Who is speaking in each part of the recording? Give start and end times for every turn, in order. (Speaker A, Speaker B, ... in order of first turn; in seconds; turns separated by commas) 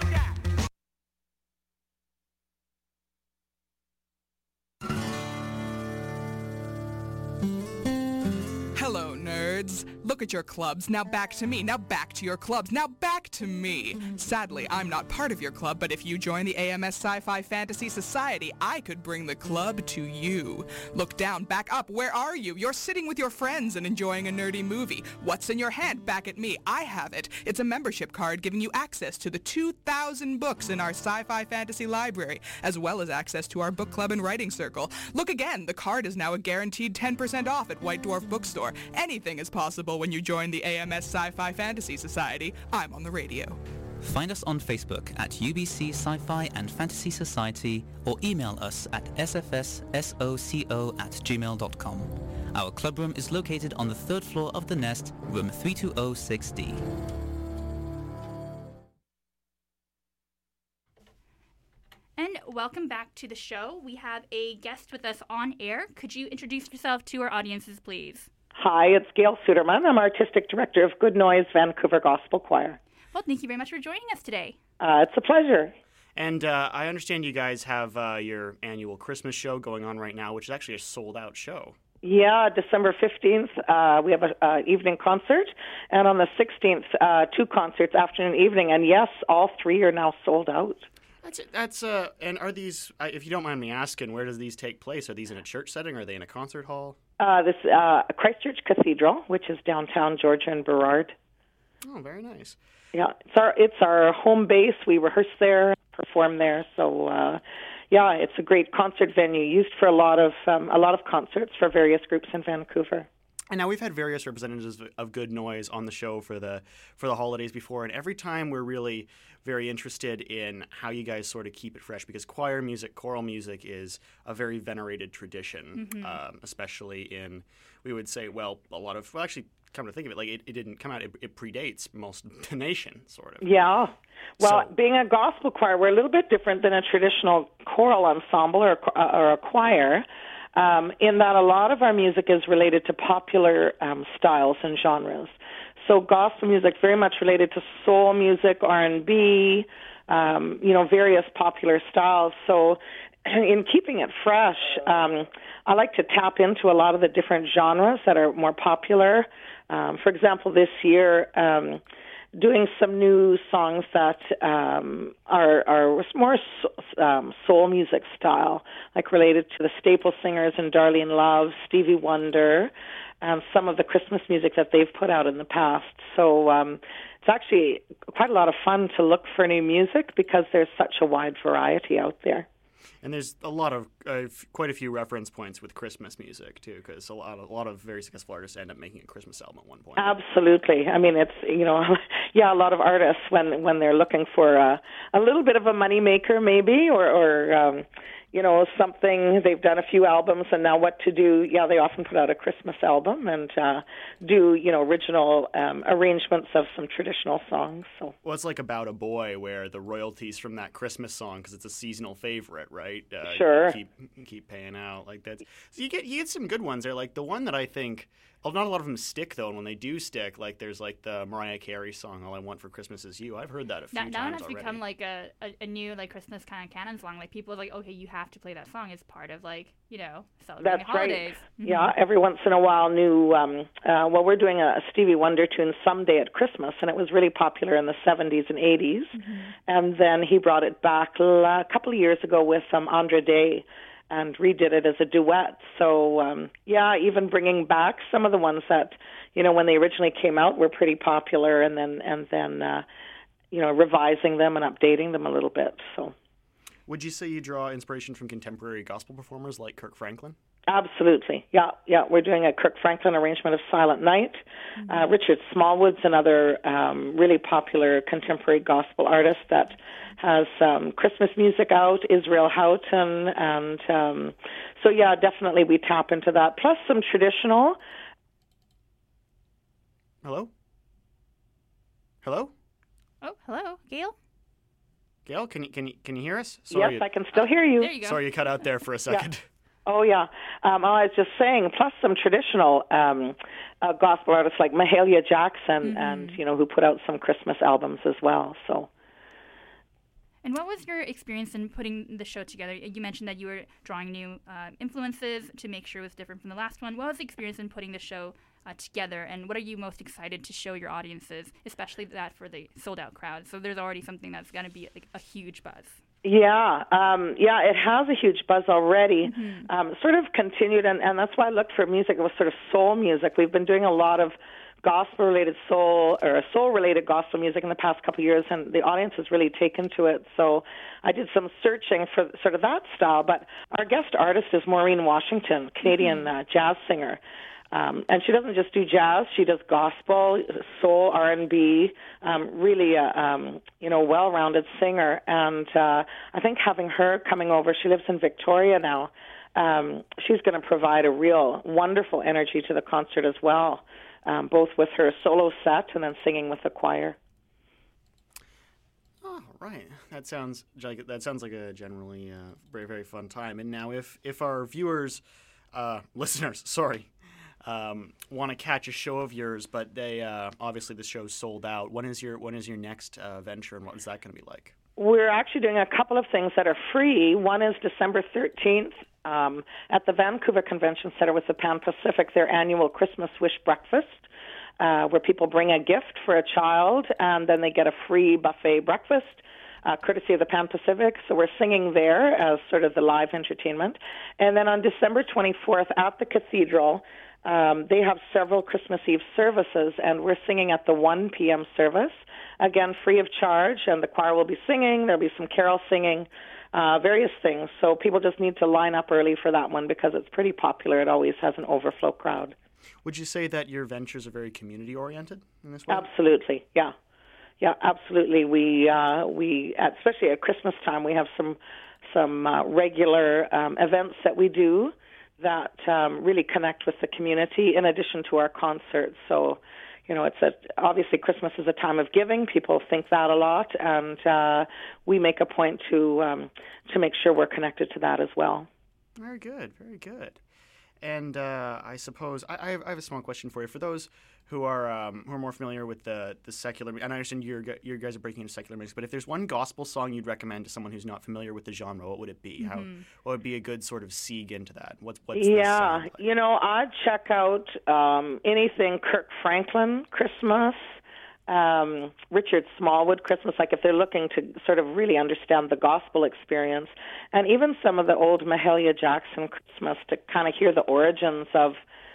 Speaker A: 8.7-43.6, Speaker B: 44.0-56.8, Speaker C: 62.2-68.3, Speaker D: 68.6-72.8, Speaker C: 73.1-74.6, Speaker D: 74.8-75.7, Speaker E: 76.2-81.8, Speaker D: 82.0-90.8, Speaker E: 91.2-97.0, Speaker D: 97.2-101.1, Speaker E: 101.8-102.6, Speaker D: 102.9-113.1, Speaker E: 113.5-133.4, Speaker C: 125.8-126.2, Speaker D: 133.4-161.8, Speaker E: 134.4-134.7, Speaker D: 162.4-182.5, Speaker E: 183.0-190.2, Speaker D: 190.0-208.1, Speaker E: 208.2-224.8, Speaker D: 213.2-213.8, Speaker C: 223.9-231.9, Speaker D: 230.6-239.1, Speaker C: 239.1-239.5, Speaker D: 239.7-252.8, Speaker D: 253.5-256.1, Speaker E: 256.9-260.4, Speaker D: 260.7-277.8, Speaker E: 280.2-280.5, Speaker E: 282.2-282.5, Speaker C: 283.2-284.2, Speaker E: 285.3-287.5, Speaker D: 286.7-287.9, Speaker C: 287.8-288.2, Speaker E: 288.0-289.5, Speaker D: 289.9-298.9, Speaker C: 295.8-296.4, Speaker C: 300.4-316.0, Speaker D: 316.2-337.2, Speaker C: 319.2-319.7, Speaker C: 335.9-336.3, Speaker D: 337.7-357.2, Speaker E: 359.2-367.1, Speaker E: 367.6-374.8, Speaker D: 375.0-384.2, Speaker D: 384.8-412.6, Speaker E: 413.0-416.1, Speaker D: 415.9-416.9, Speaker D: 417.6-421.6, Speaker D: 422.1-438.7, Speaker E: 439.2-440.4, Speaker E: 441.0-456.2, Speaker C: 452.6-453.1, Speaker D: 455.4-460.9, Speaker D: 461.5-471.8